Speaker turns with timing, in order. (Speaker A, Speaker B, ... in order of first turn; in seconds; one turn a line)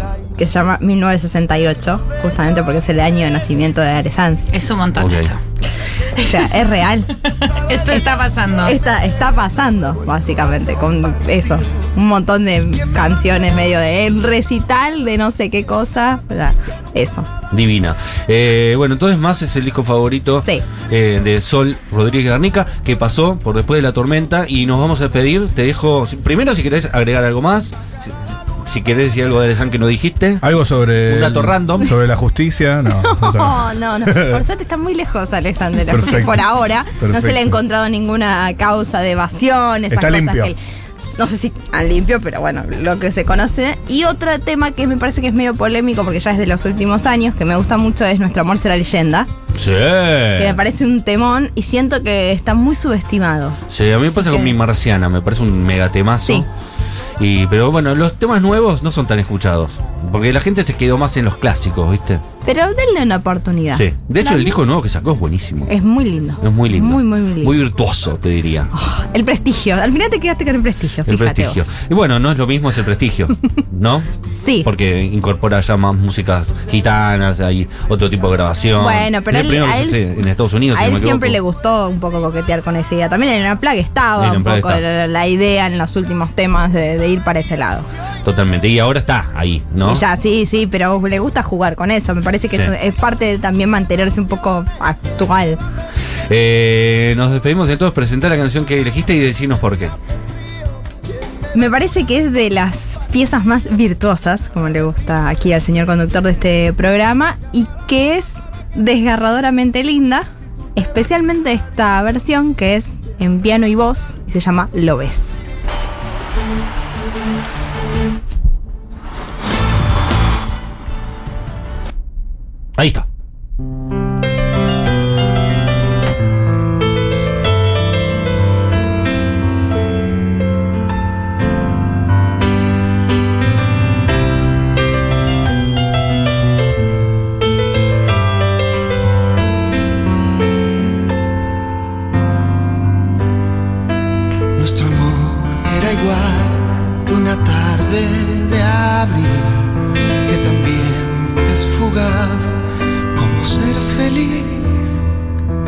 Speaker A: 0.4-4.5
Speaker B: 4.5-5.4
Speaker C: 5.0-5.3
Speaker B: 6.2-6.5
Speaker A: 6.2-7.1
Speaker B: 7.5-8.8
Speaker A: 8.6-17.3
Speaker C: 17.5-28.1
Speaker C: 28.6-30.4
Speaker D: 30.4-34.4
Speaker C: 31.1-31.9
Speaker A: 32.9-40.6
Speaker D: 35.8-37.6
Speaker D: 39.9-40.5
Speaker A: 41.2-49.3
Speaker C: 49.5-50.6
Speaker A: 50.4-53.6
Speaker C: 53.7-56.5
Speaker A: 54.1-54.5
Speaker C: 57.2-62.2
Speaker A: 62.4-64.6
Speaker C: 63.7-65.7
Speaker A: 65.7-67.5
Speaker C: 66.4-68.7
Speaker A: 68.7-71.7
Speaker C: 71.1-74.1
Speaker A: 74.3-74.7
Speaker C: 74.6-81.4
Speaker A: 78.8-87.9
Speaker C: 84.2-84.8
Speaker C: 88.2-90.0
Speaker A: 89.8-95.6
Speaker C: 96.3-99.9
Speaker A: 101.5-115.4
Speaker C: 122.8-123.0
Speaker E: 144.5-152.6
Speaker E: 153.1-154.9